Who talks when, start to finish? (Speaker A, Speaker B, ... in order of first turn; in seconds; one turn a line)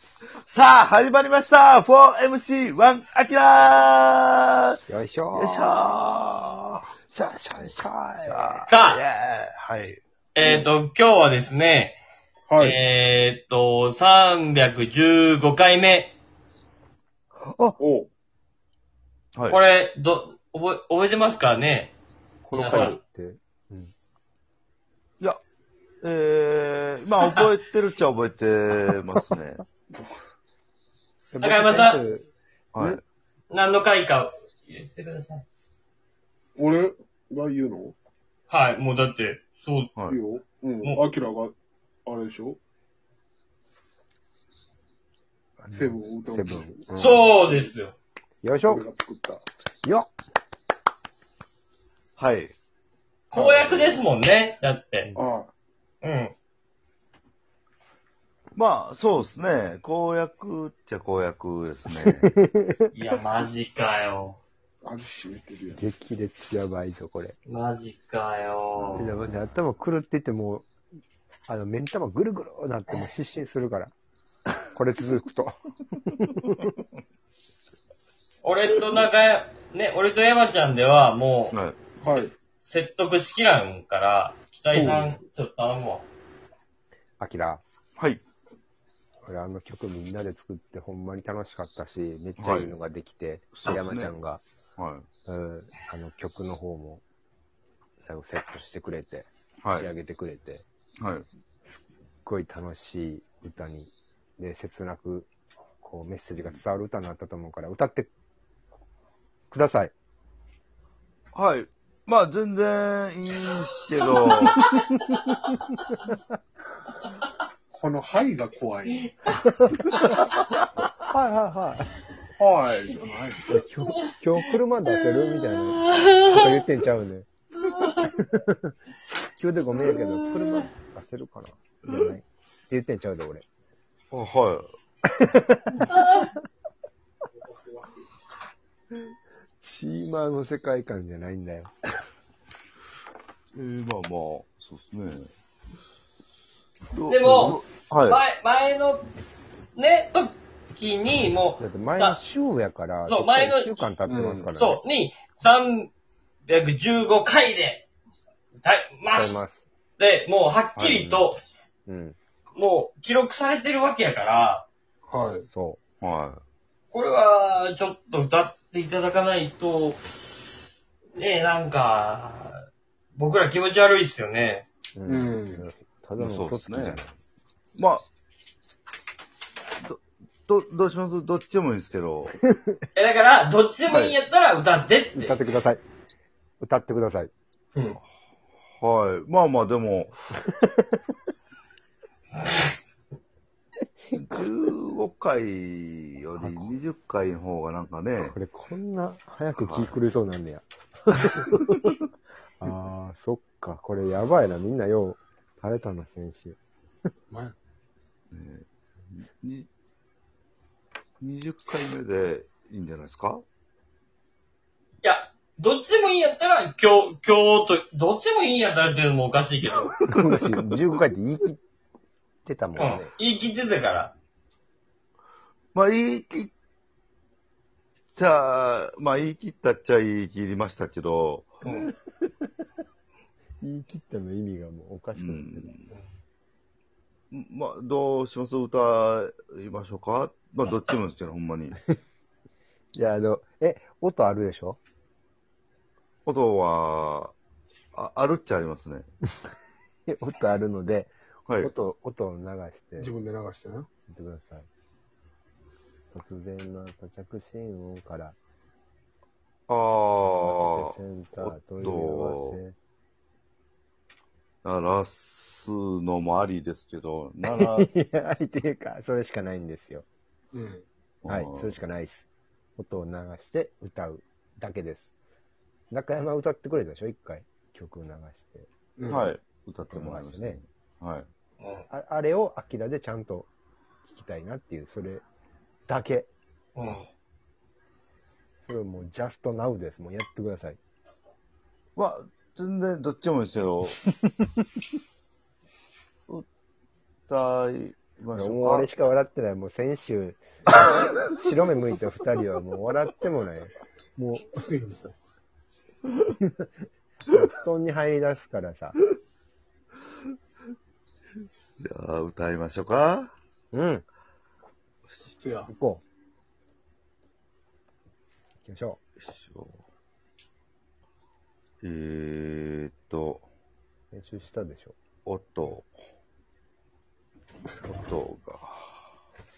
Speaker A: 0.5-4.8
Speaker B: 4.9-5.8
Speaker A: 5.3-6.8
Speaker B: 7.1-8.6
Speaker A: 8.2-10.0
Speaker C: 8.7-9.0
Speaker C: 10.3-12.0
Speaker D: 10.4-10.7
Speaker D: 12.5-12.8
Speaker C: 12.6-16.1
Speaker B: 17.5-17.8
Speaker D: 17.8-18.1
Speaker C: 19.5-21.9
Speaker B: 22.4-23.9
Speaker C: 22.5-23.0
Speaker D: 22.7-22.9
Speaker A: 26.0-29.6
Speaker B: 31.3-33.0
Speaker C: 31.4-32.0
Speaker A: 32.7-33.0
Speaker C: 33.5-35.4
Speaker D: 36.5-38.0
Speaker C: 38.5-39.9
Speaker D: 40.0-41.5
Speaker D: 42.0-42.6
Speaker B: 45.6-47.2
Speaker D: 45.7-47.7
Speaker C: 47.0-47.9
Speaker B: 48.4-48.8
Speaker D: 48.6-49.4
Speaker B: 49.8-50.1
Speaker A: 52.2-52.5
Speaker C: 53.3-55.1
Speaker D: 53.3-54.0
Speaker D: 55.1-55.5
Speaker C: 56.0-56.3
Speaker A: 58.5-62.3
Speaker B: 62.0-62.9
Speaker C: 62.9-64.4
Speaker D: 64.8-65.8
Speaker B: 65.8-67.3
Speaker C: 67.5-69.1
Speaker A: 68.8-69.1
Speaker B: 69.0-70.7
Speaker B: 71.5-73.9
Speaker B: 74.5-76.8
Speaker C: 78.4-81.6
Speaker D: 82.0-82.3
Speaker C: 82.6-86.0
Speaker D: 84.7-85.2
Speaker B: 87.2-87.6
Speaker A: 88.0-88.2
Speaker B: 89.2-94.4
Speaker A: 92.4-92.8
Speaker A: 93.5-94.2
Speaker A: 94.8-95.0
Speaker B: 95.2-97.0
Speaker B: 98.0-100.7
Speaker A: 99.6-99.9
Speaker A: 101.0-101.3
Speaker B: 101.6-108.1
Speaker B: 109.5-109.9
Speaker A: 111.3-114.6
Speaker B: 114.9-116.2
Speaker D: 117.7-119.1
Speaker B: 119.3-120.3
Speaker B: 121.1-122.0
Speaker D: 122.4-123.6
Speaker B: 123.5-127.3
Speaker C: 125.3-126.6
Speaker C: 127.6-128.1
Speaker B: 127.8-128.7
Speaker B: 129.4-133.4
Speaker A: 134.1-134.7
Speaker B: 135.1-136.3
Speaker C: 135.9-136.3
Speaker D: 137.5-137.9
Speaker B: 139.6-141.7
Speaker A: 143.5-145.3
Speaker A: 146.9-148.2
Speaker C: 147.1-149.1
Speaker C: 149.7-152.2
Speaker B: 151.6-154.8
Speaker C: 153.0-153.8
Speaker D: 154.0-154.5
Speaker C: 154.6-155.9
Speaker C: 156.4-157.8
Speaker C: 158.6-159.4
Speaker B: 159.1-159.7
Speaker C: 160.0-161.4
Speaker A: 160.8-161.2
Speaker B: 161.9-162.2
Speaker C: 162.5-164.7
Speaker D: 165.1-165.4
Speaker B: 165.4-165.8
Speaker A: 166.0-166.4
Speaker C: 166.9-170.2
Speaker C: 171.1-172.6
Speaker C: 173.1-174.6
Speaker B: 174.9-177.1
Speaker D: 175.1-175.7
Speaker A: 176.2-177.0
Speaker A: 177.8-178.1
Speaker A: 179.8-182.4
Speaker B: 182.5-182.8
Speaker C: 182.9-185.4
Speaker A: 183.9-184.1
Speaker B: 185.1-185.8
Speaker B: 186.6-187.3
Speaker A: 188.8-190.1
Speaker B: 190.4-191.0
Speaker A: 194.1-198.3
Speaker B: 196.4-196.7
Speaker B: 198.2-201.9
Speaker A: 199.5-199.9
Speaker B: 202.6-206.6
Speaker D: 207.3-207.6
Speaker A: 208.3-209.7
Speaker A: 211.2-213.4
Speaker C: 215.0-220.0
Speaker B: 220.1-221.6
Speaker B: 222.4-223.1
Speaker C: 222.8-224.1
Speaker A: 225.7-226.5
Speaker A: 228.1-231.6
Speaker C: 231.6-231.9
Speaker B: 231.7-232.5
Speaker B: 233.6-235.7
Speaker A: 235.2-235.9
Speaker A: 237.3-241.8
Speaker B: 242.9-244.8
Speaker A: 246.2-247.3
Speaker A: 247.9-249.1
Speaker B: 250.1-253.1
Speaker D: 253.0-253.9
Speaker B: 254.1-254.7
Speaker B: 256.1-258.4
Speaker A: 259.7-262.6
Speaker B: 260.3-262.7
Speaker A: 264.6-267.9
Speaker B: 267.5-270.1
Speaker D: 270.5-270.8
Speaker A: 271.2-271.8
Speaker B: 271.3-275.1
Speaker B: 275.9-278.7
Speaker D: 279.0-279.3
Speaker A: 279.1-281.3
Speaker B: 279.8-280.6
Speaker C: 281.6-281.9
Speaker B: 281.9-283.5
Speaker B: 284.0-285.2
Speaker B: 285.9-286.3
Speaker C: 286.7-287.1
Speaker B: 288.6-290.8
Speaker A: 291.9-294.0
Speaker A: 297.3-298.9
Speaker B: 298.3-304.6
Speaker D: 304.6-305.1
Speaker B: 306.3-306.7
Speaker B: 307.3-309.0
Speaker A: 311.8-313.3
Speaker B: 313.7-314.0
Speaker D: 315.2-315.7
Speaker B: 315.7-316.0
Speaker B: 318.6-319.0
Speaker A: 319.2-319.8
Speaker A: 321.8-323.4
Speaker B: 324.1-324.9
Speaker A: 325.2-325.9
Speaker A: 327.8-329.0